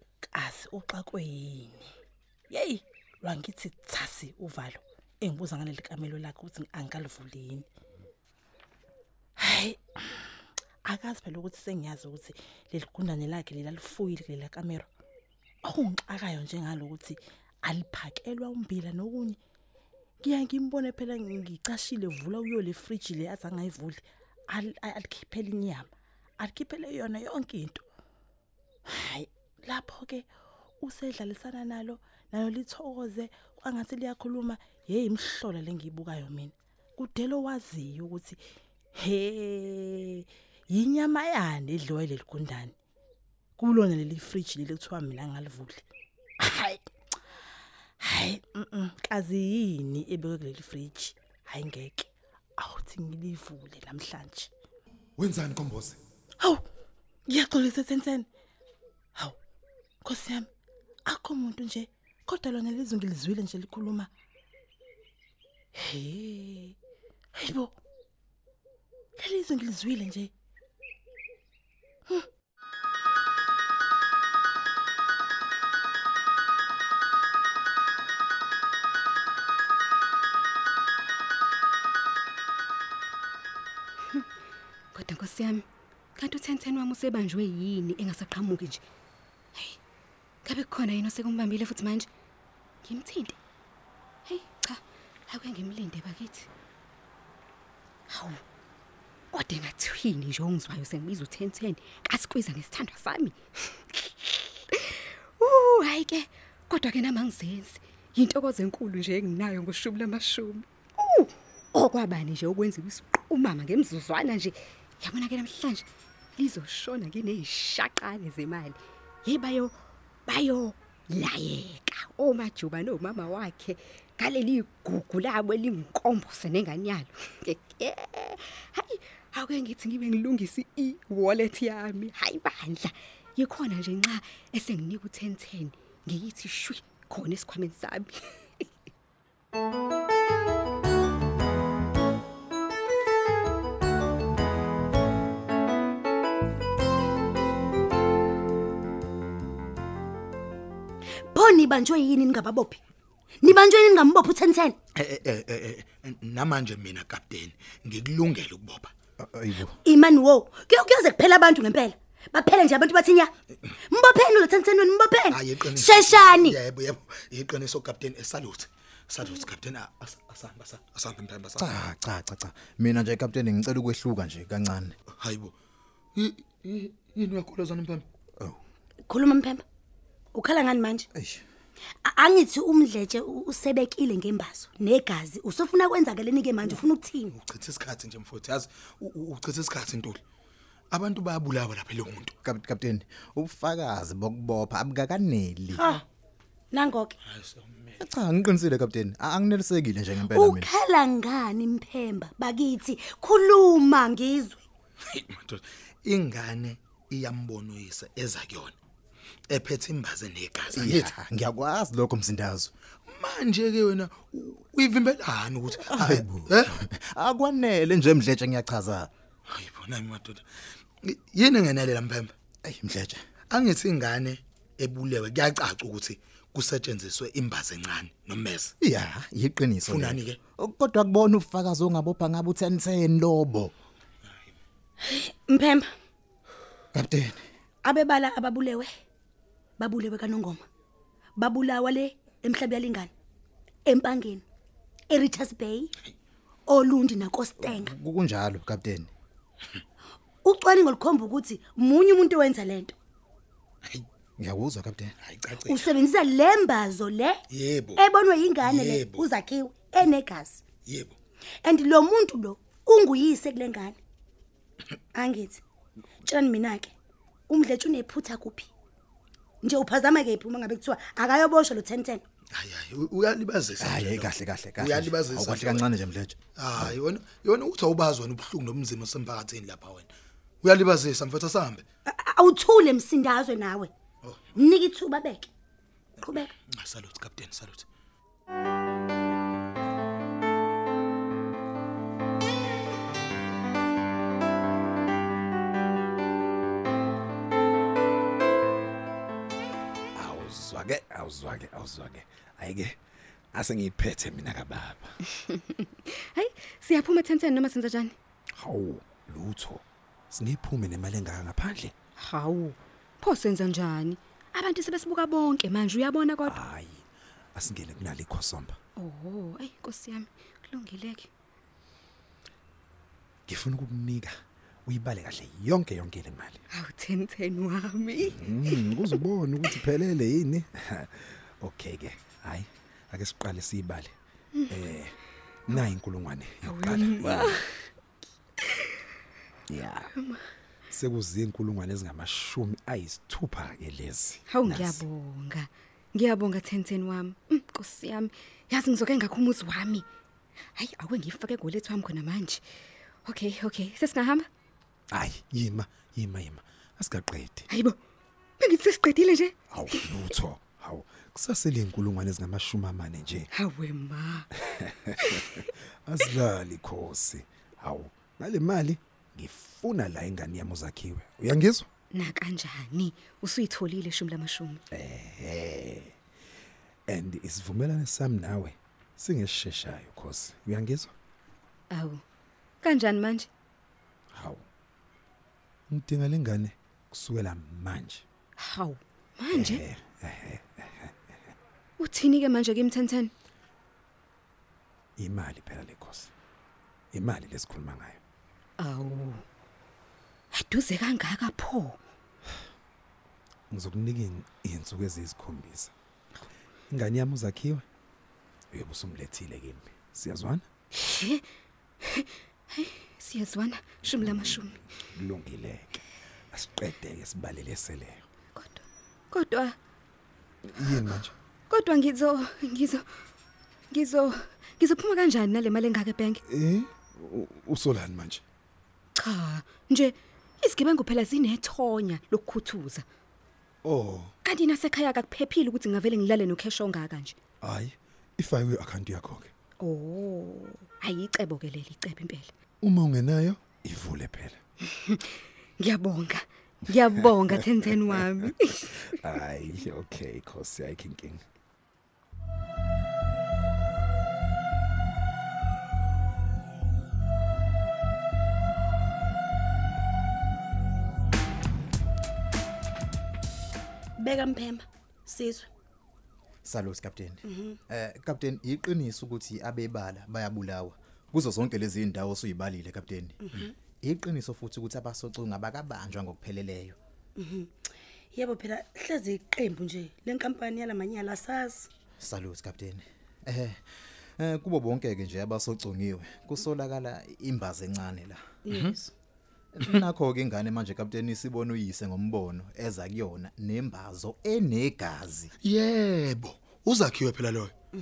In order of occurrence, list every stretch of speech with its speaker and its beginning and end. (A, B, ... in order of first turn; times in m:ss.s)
0:00.3-0:01.9 A
0:02.5-0:07.6 A
0:09.4-0:10.3 A
0:10.8-0:14.9 A
0:15.6-0:19.4 A
0:20.2-0:25.9 A
0:26.4-0:27.8 A
0:28.9-0:30.3 A
0:30.8-0:38.4 A
0:39.0-0:42.7 A
0:43.6-0:45.8 A
0:46.4-0:46.8 A
0:48.0-0:54.5 A
0:55.2-0:56.0 B
0:57.3-0:58.3 A
1:00.0-1:00.5 A
1:01.1-1:04.1 A
1:05.8-1:06.8 A
1:07.4-1:07.8 A
1:09.2-1:10.3 A
1:24.9-1:25.6 C
1:26.2-1:28.8 C
1:30.4-1:32.1 C
1:32.8-1:33.4 C
1:34.2-1:36.5 C
1:38.1-1:38.4 C
1:39.3-2:18.7 C
2:31.3-2:32.8 D
2:33.4-2:34.8 D
2:34.9-2:38.9 E
2:39.2-2:39.8 F
2:39.8-2:43.3 D
2:43.9-2:46.6 D
2:45.3-2:51.8 E
2:51.6-2:54.9 F
2:55.2-2:55.5 E
2:56.1-2:58.0 E
2:59.1-2:59.6 D
3:00.3-3:01.1 D
3:01.1-3:01.4 F
3:02.0-3:07.3 D
3:07.3-3:10.2 E
3:10.9-3:12.3 E
3:12.4-3:15.8 F
3:15.7-3:16.0 D
3:16.7-3:17.2 D
3:17.2-3:18.0 E
3:18.0-3:20.7 F
3:20.3-3:24.6 D
3:25.1-3:28.7 E
3:29.5-3:31.1 E
3:30.7-3:32.7 F
3:33.1-3:36.7 E
3:35.8-3:39.1 F
3:39.5-3:40.4 E
3:41.0-3:42.3 E
3:42.6-3:43.2 F
3:43.5-3:48.7 E
3:48.8-3:53.7 F
3:49.9-3:50.4 E
3:55.0-3:55.9 D
3:56.9-3:57.4 F
3:57.8-3:58.9 D
3:59.8-4:00.6 D
4:01.4-4:03.1 D
4:03.8-4:04.4 D
4:05.1-4:05.9 D
4:06.7-4:07.9 D
4:07.6-4:09.1 F
4:10.4-4:12.9 D
4:14.4-4:15.1 F
4:15.2-4:15.9 E
4:15.6-4:17.4 D
4:17.5-4:18.0 E
4:18.0-4:20.6 D
4:18.6-4:19.3 E
4:20.8-4:21.1 E
4:21.6-4:24.0 D
4:25.1-4:25.6 D
4:26.2-4:26.9 D
4:27.5-4:28.7 D
4:29.6-4:32.2 D
4:32.5-4:35.9 E
4:33.8-4:36.9 F
4:36.6-4:40.1 E
4:40.6-4:41.8 E
4:42.1-4:43.9 D
4:44.2-4:44.6 E
4:44.6-4:45.5 D
4:46.2-4:46.5 D
4:46.6-4:47.8 E
5:00.1-5:02.9 B
5:03.5-5:05.1 B
5:05.3-5:08.1 C
5:08.5-5:11.9 B
5:12.2-5:16.6 C
5:16.5-5:18.8 B
5:19.0-5:21.3 C
5:23.5-5:24.3 B
5:24.8-5:26.6 B
5:26.7-5:29.2 C
5:28.4-5:34.1 B
5:34.7-5:35.2 B
5:35.7-5:37.4 B
5:36.6-5:37.8 C
5:37.2-5:37.5 F
5:38.6-5:38.9 C
5:39.7-5:40.0 B
5:40.2-5:40.4 C
5:40.9-5:44.4 B
5:44.5-5:50.0 C
5:44.6-5:45.0 F
5:50.7-5:52.6 C
5:53.2-5:54.5 C
5:55.1-5:57.6 B
5:57.7-5:58.0 C
5:58.6-6:00.1 C
5:59.7-6:03.5 B
6:03.5-6:04.5 C
6:04.7-6:05.3 B
6:05.2-6:05.6 C
6:06.0-6:11.9 B
6:12.1-6:14.8 C
6:14.9-6:16.1 B
6:17.1-6:21.1 B
6:21.9-6:22.2 C
6:22.8-6:23.5 C
6:24.3-6:24.6 B
6:25.9-6:28.2 B
6:28.6-6:29.8 C
6:29.7-6:31.1 B
6:32.0-6:33.3 C
6:35.2-6:36.3 B
6:37.1-6:38.2 B
6:38.8-6:39.4 C
6:40.5-6:42.0 C
6:43.7-6:45.9 B
6:46.9-6:47.8 B
6:48.7-6:50.6 B
6:50.9-6:51.4 C
6:52.0-6:54.8 C
6:55.1-6:56.0 B
6:56.5-6:58.2 B
6:58.5-6:59.8 C
7:00.7-7:01.2 B
7:01.7-7:03.0 C
7:03.9-7:06.4 C
7:06.5-7:08.4 B
7:09.2-7:13.0 C
7:13.8-7:14.3 B
7:14.4-7:17.4 C
7:17.6-7:19.5 B
7:19.8-7:22.5 C
7:22.8-7:24.6 B
7:24.8-7:29.1 C
7:29.2-7:31.4 B
7:44.2-7:45.7 D
7:46.6-7:53.4 F
7:47.5-7:47.8 D
7:54.0-7:57.0 F
7:57.4-7:57.7 D
7:58.3-8:01.9 D
8:02.2-8:03.8 F
8:04.4-8:08.4 F
8:08.7-8:09.1 D
8:09.7-8:15.5 F
8:15.6-8:17.7 E